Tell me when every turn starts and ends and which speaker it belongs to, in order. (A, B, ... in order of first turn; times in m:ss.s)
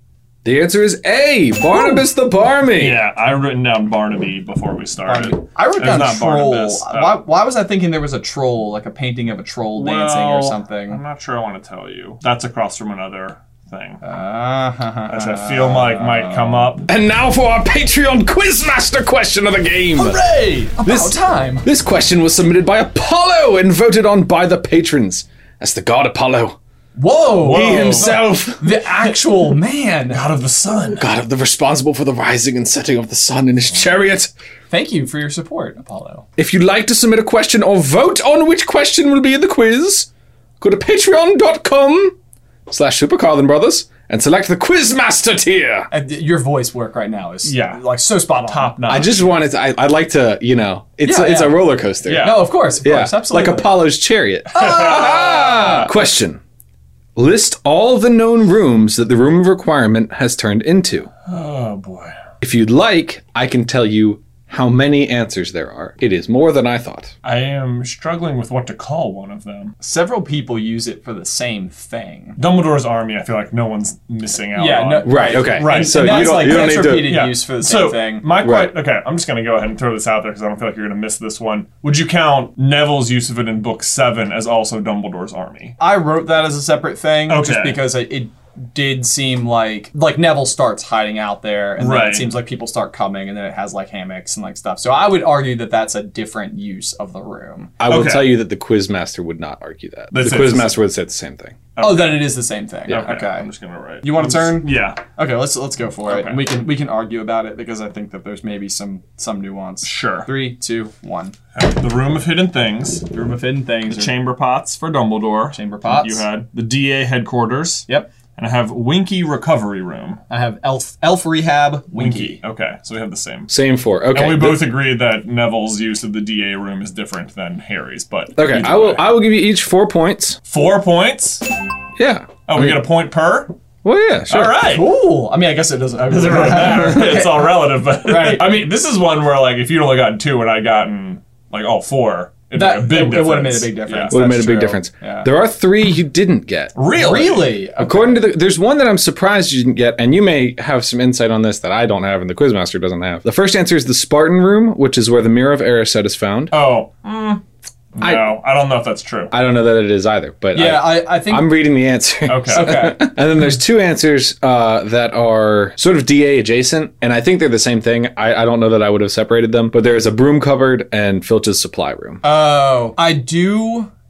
0:00.4-0:03.0 A
0:02.8-0:07.2 B
0:05.0-0:11.0 C
0:09.7-0:14.0 B
0:14.0-0:16.7 C
0:15.1-0:16.9 B
0:16.8-0:20.2 A
0:20.0-0:20.7 B
0:20.7-0:21.6 C
0:20.8-0:26.6 A
0:27.0-0:30.2 C
0:27.4-0:28.2 B
0:27.4-0:28.8 A
0:30.1-0:31.1 B
0:30.9-0:34.3 A
0:34.7-0:36.2 C
0:36.4-0:40.1 A
0:40.6-0:42.1 A
0:42.7-0:45.9 A
0:45.9-0:48.8 C
0:47.4-0:47.8 B
0:48.4-0:49.3 B
0:48.9-0:56.4 A
0:51.0-0:53.8 C
0:52.0-0:52.4 B
0:54.5-0:55.9 C
0:54.6-0:55.9 B
0:57.2-1:01.1 A
1:01.3-1:02.2 B
1:02.4-1:07.1 A
1:07.2-1:09.7 B
1:09.8-1:12.4 C
1:12.4-1:25.7 B
1:14.6-1:18.3 C
1:15.0-1:17.1 A
1:18.4-1:18.7 A
1:25.8-1:37.7 C
1:27.3-1:27.8 B
1:31.8-1:32.3 B
1:37.8-1:41.6 A
1:37.8-1:38.4 B
1:40.1-1:40.8 B
1:41.7-1:45.0 B
1:41.8-1:43.5 C
1:44.0-1:51.3 C
1:46.0-1:46.4 B
1:49.8-1:50.3 B
1:51.5-1:53.0 B
1:53.1-1:54.1 C
1:53.9-2:00.2 B
1:55.5-1:56.2 C
2:00.3-2:02.4 C
2:01.9-2:03.5 B
2:03.5-2:04.6 A
2:04.1-2:09.0 B
2:08.4-2:10.4 A
2:10.5-2:11.4 B
2:12.0-2:12.8 A
2:12.5-2:13.5 B
2:13.8-2:14.6 A
2:14.3-2:14.8 B
2:14.6-2:18.6 C
2:16.1-2:24.1 B
2:22.5-2:25.3 C
2:24.1-2:26.7 A
2:26.7-2:27.5 B
2:26.9-2:28.2 C
2:27.8-2:36.5 A
2:36.5-2:37.4 B
2:37.9-2:39.3 B
2:38.0-2:38.4 A
2:39.3-2:52.2 A
2:40.5-2:41.6 C
2:42.2-2:42.8 B
2:42.5-2:43.1 C
2:52.2-2:53.9 C